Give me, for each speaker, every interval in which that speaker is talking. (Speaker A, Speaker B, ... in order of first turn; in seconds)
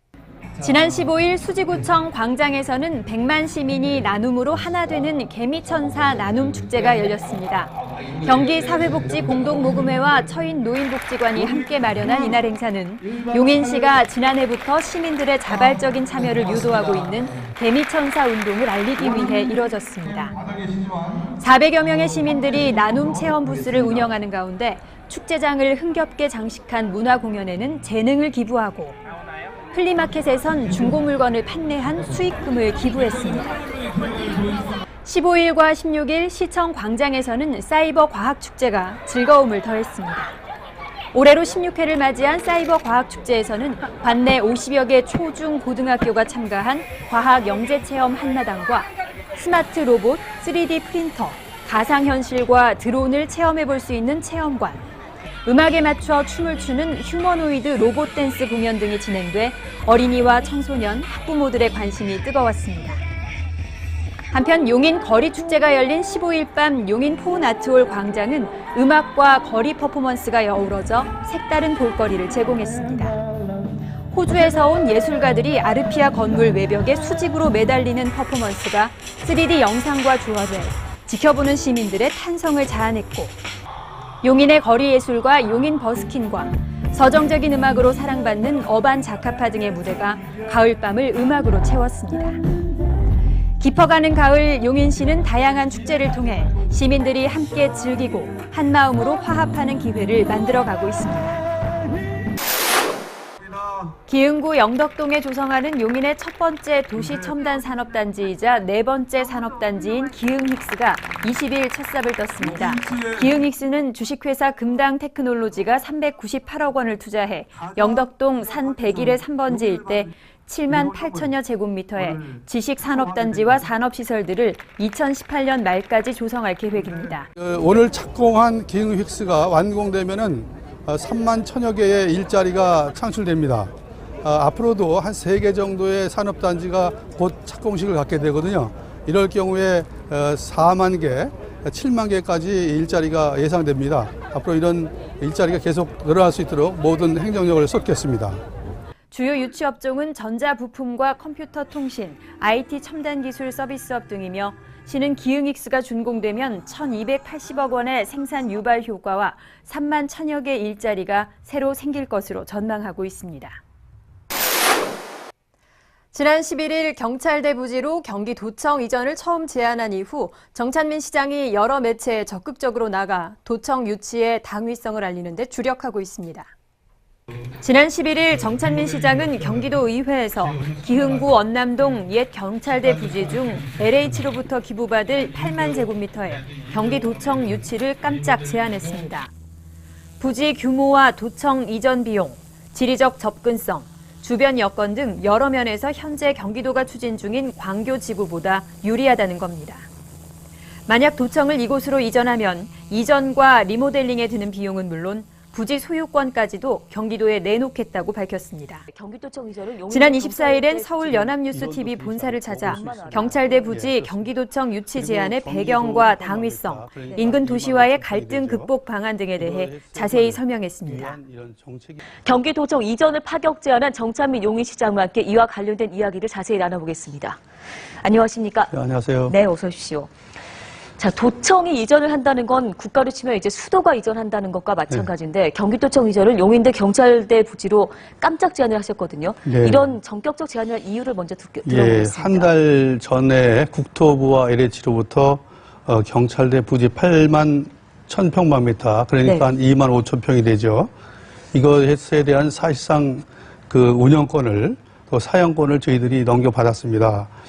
Speaker A: 0.6-20.4, 21.3-29.0, 29.7-33.6, 35.0-40.4, 41.1-54.8, 55.4-63.0, 64.3-73.2, 74.1-83.3, 84.2-92.4, 93.6-101.4, 104.1-127.3, 149.1-163.6, 166.1-176.5, 177.6-189.3, 190.2-199.8, 200.9-208.8, 209.9-221.2
Speaker B: 127.4-133.7, 134.2-148.4, 211.4-214.3, 214.9-218.7, 219.4-222.0, 228.7-229.3, 239.4-239.9, 241.6-250.9, 251.5-257.3
Speaker C: 208.9-211.3, 212.7-213.7, 222.2-227.4, 228.0-228.7, 229.3-230.1, 231.0-242.5